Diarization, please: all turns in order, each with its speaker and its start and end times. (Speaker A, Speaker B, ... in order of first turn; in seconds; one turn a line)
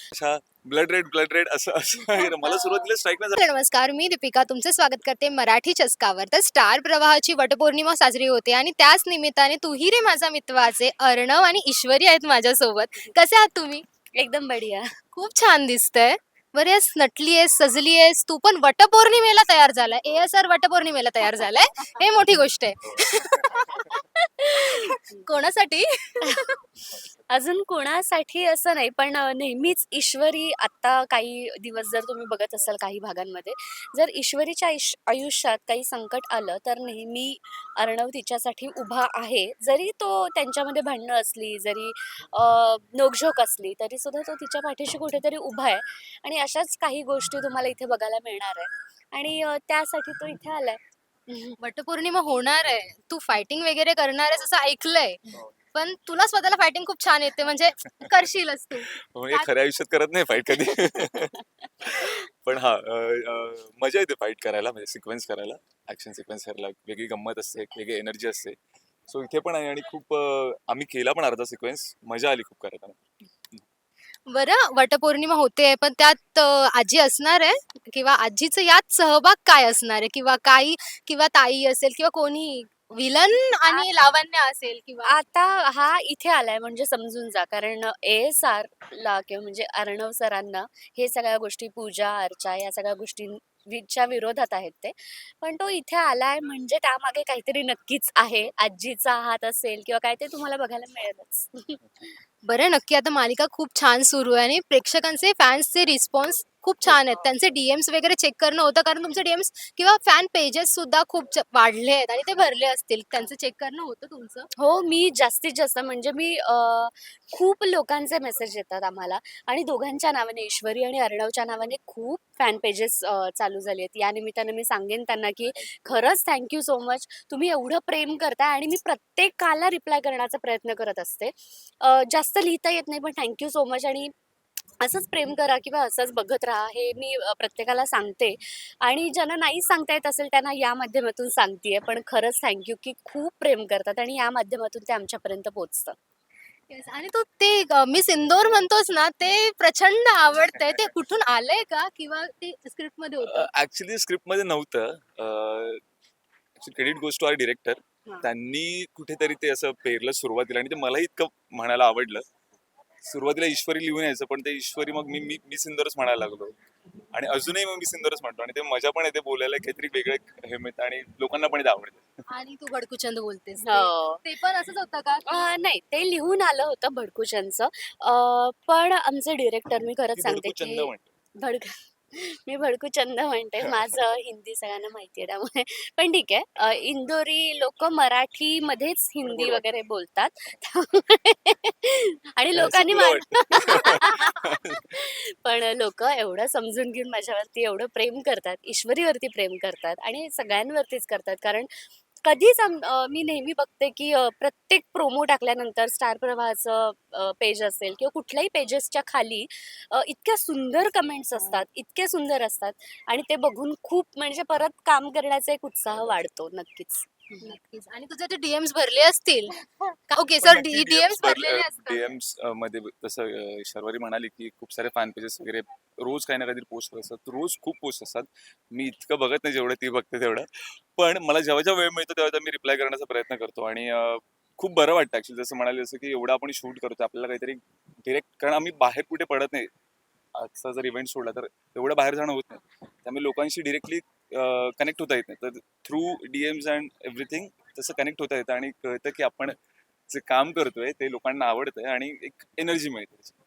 Speaker A: 0.1-3.4
Speaker B: 2.1-2.9
Speaker C: 3.4-13.8
Speaker B: 14.1-14.9
Speaker C: 15.1-24.0
Speaker B: 21.2-22.1
Speaker A: 22.9-23.8
Speaker B: 23.9-25.2
Speaker C: 24.6-26.5
Speaker B: 27.3-51.6
Speaker C: 51.6-59.5
Speaker A: 59.0-61.3
Speaker B: 61.4-62.1
Speaker A: 61.8-73.0
Speaker C: 74.3-85.2
Speaker B: 83.7-83.9
Speaker B: 85.0-102.2
Speaker C: 102.4-114.5
Speaker B: 106.8-107.1
Speaker B: 114.5-134.1
Speaker B: 134.8-145.9
Speaker C: 146.7-153.5
Speaker A: 153.2-155.8
Speaker A: 156.6-162.2
Speaker A: 163.0-166.5
Speaker A: 167.1-172.1
Speaker C: 172.3-175.3
Speaker B: 173.6-174.2
Speaker B: 175.3-201.7
Speaker A: 180.2-181.1
Speaker A: 189.2-189.6
Speaker A: 192.5-194.8
Speaker B: 202.2-217.6
Speaker A: 215.9-216.2
Speaker C: 217.4-219.5
Speaker C: 220.1-222.1
Speaker A: 220.4-239.7
Speaker A: 240.3-249.6
Speaker A: 250.1-253.3